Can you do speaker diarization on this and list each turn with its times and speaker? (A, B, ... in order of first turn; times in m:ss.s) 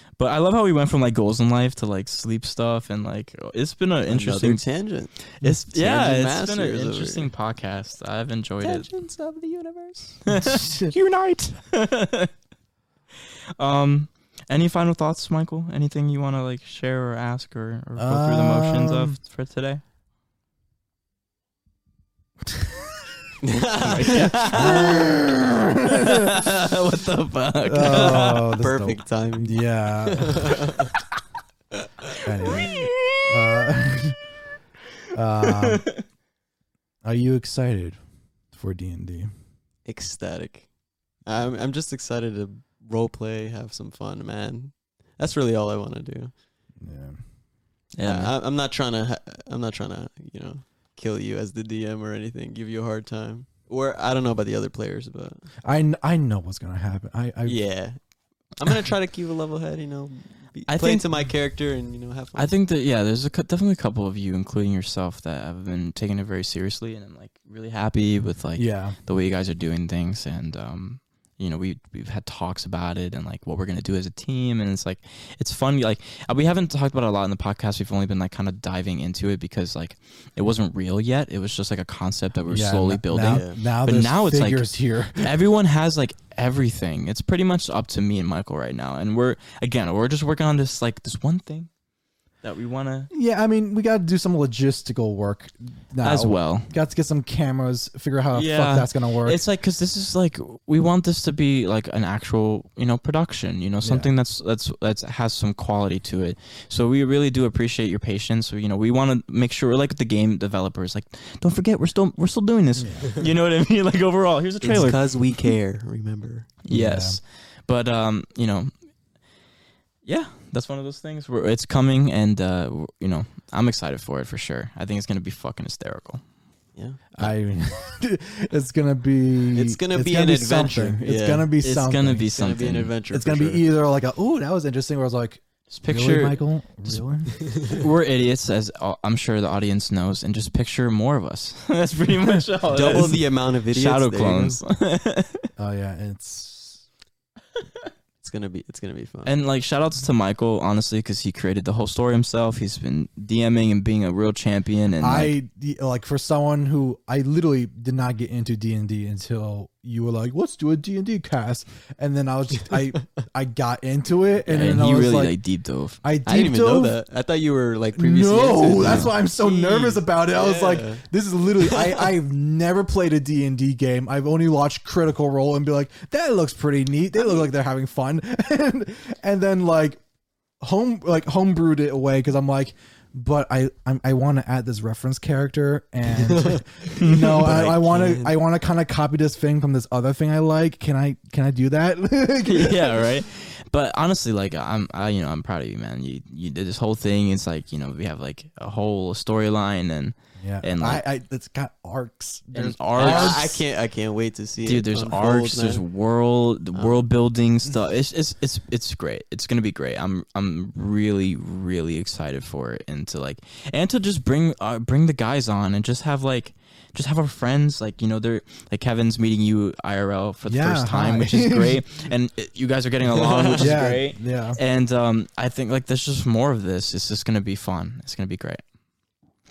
0:00.2-0:04.6 A
0:04.1-0:07.3 B
0:05.7-0:08.9 A
0:08.6-0:10.2 B
0:10.3-0:12.3 A
0:10.3-0:10.9 C
0:13.6-0:19.8 A
0:18.0-0:19.2 C
0:23.4-0:24.5 B
0:24.0-0:25.2 A
0:24.4-0:26.4 C
0:25.9-0:28.5 A
0:27.6-0:30.6 C
0:27.9-0:30.9 B
0:32.2-0:34.2 C
0:32.5-0:33.2 A
0:35.1-0:36.0 C
0:35.6-0:35.9 A
0:37.0-0:38.0 C
0:38.5-0:39.3 C
0:39.9-0:40.7 B
0:41.2-0:46.3 B
0:46.8-0:47.2 C
0:48.0-0:48.3 A
0:48.0-0:55.5 B
0:55.6-0:57.6 C
0:57.4-0:58.0 B
0:58.6-1:02.5 B
1:00.7-1:01.0 A
1:02.4-1:31.7 A
1:08.6-1:09.0 C
1:22.5-1:25.3 C
1:23.2-1:23.6 B
1:32.4-1:33.1 A
1:33.1-1:39.4 C
1:36.0-1:36.7 A
1:38.3-1:55.0 A
1:43.8-1:44.1 C
1:52.8-1:53.2 C
1:54.6-1:56.5 B
1:56.7-1:58.7 A
1:56.7-1:57.2 C
2:00.0-2:06.2 A
2:06.8-2:07.0 B
2:07.2-2:12.3 C
2:09.6-2:11.5 B
2:11.6-2:12.9 A
2:12.3-2:13.7 B
2:13.1-2:17.5 C
2:15.7-2:16.4 A
2:17.4-2:17.8 B
2:17.7-2:25.5 A
2:22.7-2:24.6 B
2:25.6-2:26.8 C
2:28.2-2:29.3 B
2:29.2-2:35.3 A
2:35.0-2:45.4 C
2:44.5-2:46.0 A
2:46.0-2:47.0 C
2:46.3-2:51.0 B
2:48.0-3:00.0 C
2:51.6-2:52.1 B
3:00.6-3:13.1 C
3:06.2-3:08.4 B
3:07.0-3:07.7 A
3:12.4-3:21.0 A
3:20.4-3:23.5 C
3:22.5-3:23.6 A
3:23.0-3:25.8 B
3:24.6-3:48.6 A
3:26.8-3:27.1 B
3:40.5-3:41.8 C
3:43.1-3:43.8 B
3:43.5-3:44.6 C